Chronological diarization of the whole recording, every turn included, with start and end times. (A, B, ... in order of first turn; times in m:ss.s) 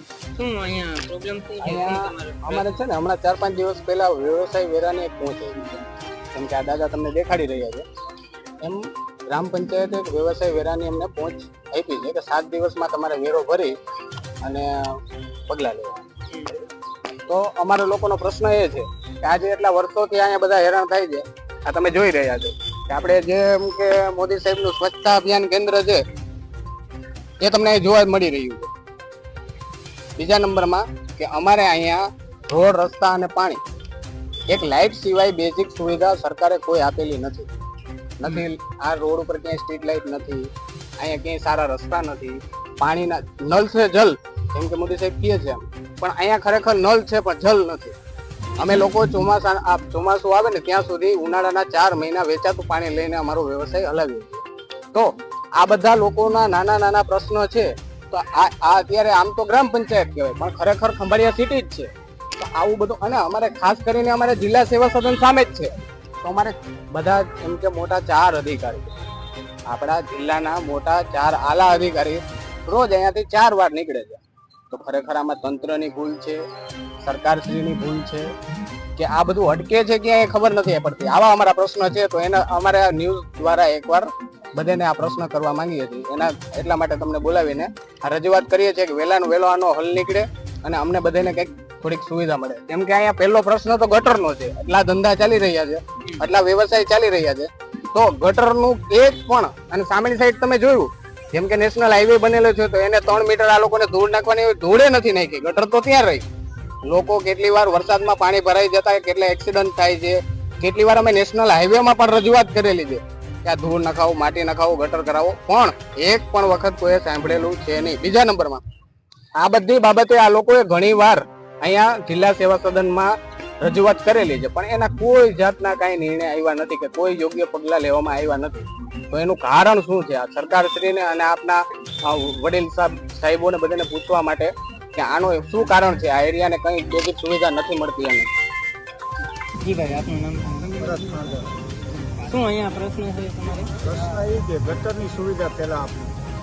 0:00.3-0:02.7 A
0:01.6-0:07.8 B
0:08.6-0:13.8 B
0:14.4-0:16.0 B
0:17.3-0:26.0 B
0:27.4-0:28.7 B
0:30.2-0:33.6 B
0:34.5-0:37.5 B
0:38.2-0:47.9 B
0:48.6-1:08.9 B
1:09.7-1:16.4 B
1:17.0-1:18.3 B
1:19.0-1:46.2 B
1:46.8-1:58.6 B
1:59.4-2:18.3 B
2:19.6-2:21.0 A
2:20.8-2:21.5 C
2:22.2-2:23.7 A
2:23.8-2:26.2 C